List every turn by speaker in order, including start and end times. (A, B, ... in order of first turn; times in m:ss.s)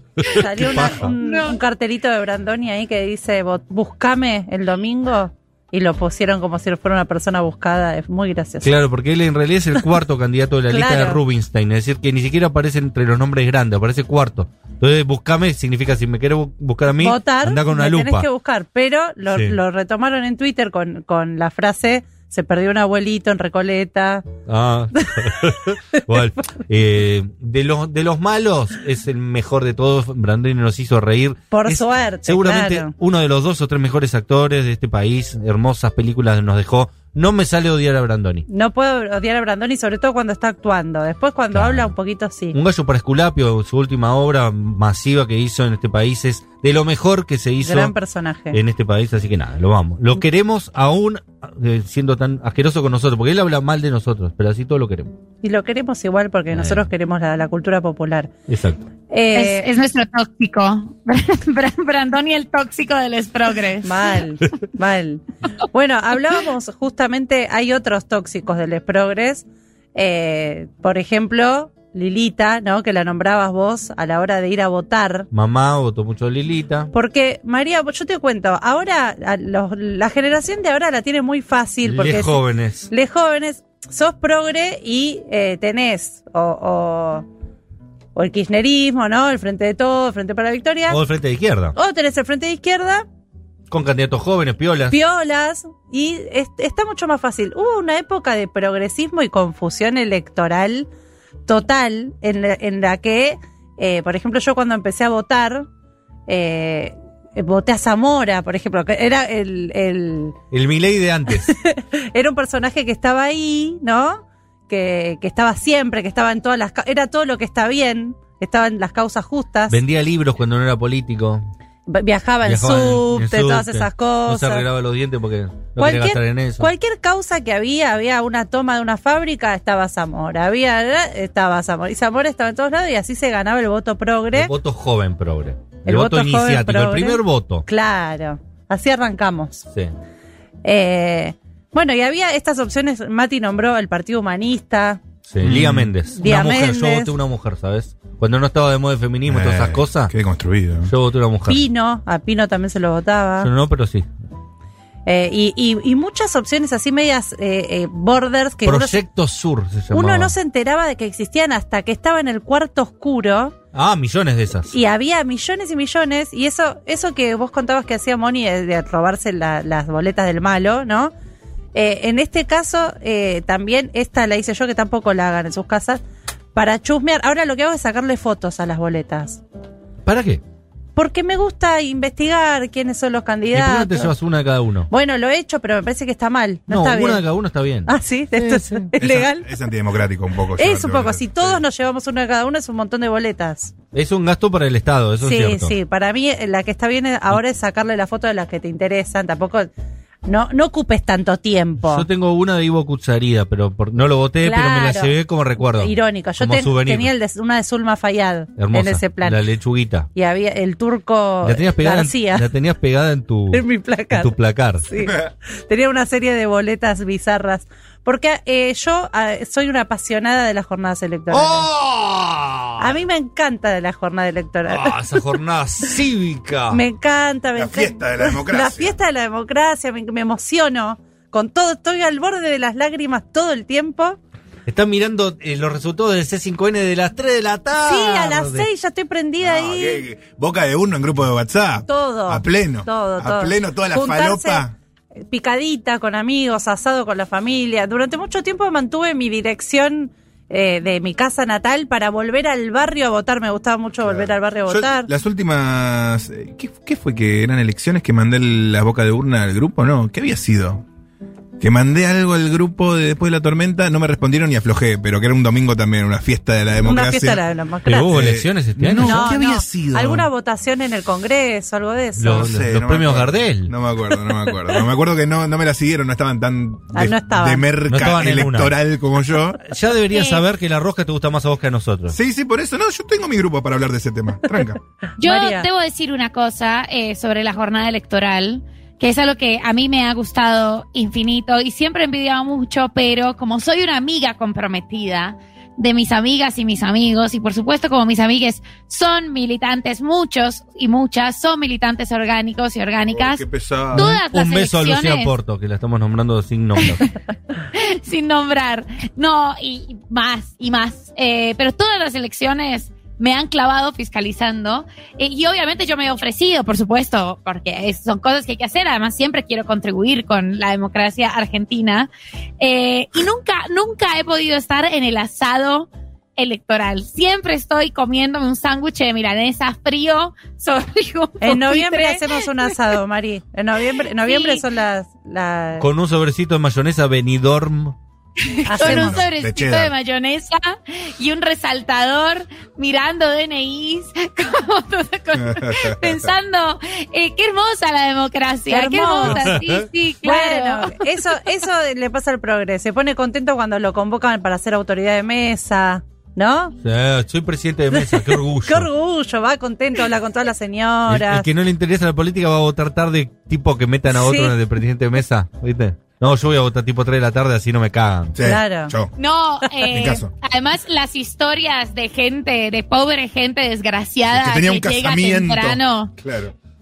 0:00.2-0:01.1 A
0:00.2-0:08.7 B
0:00.8-0:01.6 C
0:08.6-0:18.3 A
0:10.7-0:11.2 B
0:17.0-0:24.2 B
0:19.3-0:19.6 A
0:24.4-0:38.4 A
0:31.5-0:32.9 B
0:38.5-0:42.6 B
0:41.5-0:41.9 A
0:42.5-0:47.9 A
0:47.6-0:48.6 B
0:48.5-0:55.1 A
0:55.4-0:58.3 B
0:56.5-0:56.9 A
0:58.5-0:58.9 A
0:59.1-0:59.7 B
0:59.3-1:04.1 C
1:03.8-1:15.3 B
1:15.3-1:16.9 A
1:16.9-1:27.2 B
1:21.8-1:22.9 A
1:28.1-1:31.0 B
1:30.9-1:31.8 A
1:31.8-1:33.0 B
1:33.7-1:35.0 A
1:34.9-1:40.9 B
1:41.5-1:45.7 B
1:46.3-1:50.4 B
1:50.5-1:51.5 A
1:51.4-1:59.8 B
1:59.7-2:01.5 A
2:01.9-2:04.6 B
2:02.4-2:06.7 A
2:05.8-2:14.5 B
2:14.3-2:17.6 A
2:15.8-2:19.7 B
2:20.6-2:25.0 B
2:25.3-2:30.1 A
2:25.4-2:25.9 D
2:26.1-2:27.1 B
2:29.3-2:30.9 D
2:30.8-2:31.6 A
2:31.5-2:33.5 B
2:33.4-2:34.1 A
2:35.0-2:39.0 B
2:38.6-2:40.3 A
2:39.9-2:43.5 B
2:43.7-2:44.7 A
2:44.7-2:51.1 B
2:51.7-2:56.0 B
2:56.5-2:59.4 B
3:00.0-3:00.4 A
3:01.0-3:04.1 B
3:03.5-3:04.9 A
3:04.9-3:07.2 B
3:06.7-3:08.9 A
3:07.9-3:09.5 B
3:09.0-3:11.6 D
3:10.6-3:13.7 B
3:13.9-3:15.8 A
3:15.2-3:19.7 B
3:20.2-3:22.1 B
3:21.8-3:27.1 A
3:24.4-3:25.1 B
3:25.8-3:29.4 B
3:28.6-3:30.1 A
3:30.1-3:32.5 B
3:31.4-3:34.9 A
3:33.5-3:34.3 B
3:34.8-3:41.7 B
3:41.3-3:43.0 A
3:42.8-3:45.0 B
3:44.7-3:46.8 A
3:46.7-3:54.2 B
3:47.6-3:48.9 D
3:54.7-3:58.7 A
3:57.8-4:00.0 B
3:59.4-4:04.7 D
4:01.9-4:04.6 B
4:05.3-4:15.1 B
4:14.0-4:20.8 D
4:21.6-4:27.4 D
4:26.8-4:28.1 B
4:27.9-4:29.4 A
4:28.1-4:30.3 D
4:29.0-4:32.5 B
4:32.2-4:33.7 A
4:32.3-4:39.7 D
4:36.9-4:37.6 B
4:37.9-4:38.7 A
4:39.6-4:42.2 A
4:40.1-4:40.4 C
4:42.1-4:44.8 D
4:45.2-4:45.7 B
4:45.2-5:05.3 C
5:03.1-5:04.1 D
5:03.9-5:07.0 A
5:06.8-5:07.1 C
5:07.7-5:22.1 C
5:22.6-5:33.0 C
5:31.4-5:35.9 B
5:34.1-5:34.6 C
5:35.8-5:38.0 A
5:38.4-5:51.4 C
5:38.6-5:39.3 B
5:38.8-5:39.9 D
5:45.4-5:46.3 D
5:48.7-5:49.5 B
5:49.4-5:49.8 A
5:50.2-5:56.7 B
5:56.8-5:58.9 A
5:57.9-6:01.5 B
6:01.1-6:08.4 A
6:04.1-6:04.6 B
6:08.3-6:09.1 D
6:08.4-6:08.9 B
6:09.2-6:16.1 C
6:09.9-6:10.3 D
6:14.3-6:16.5 D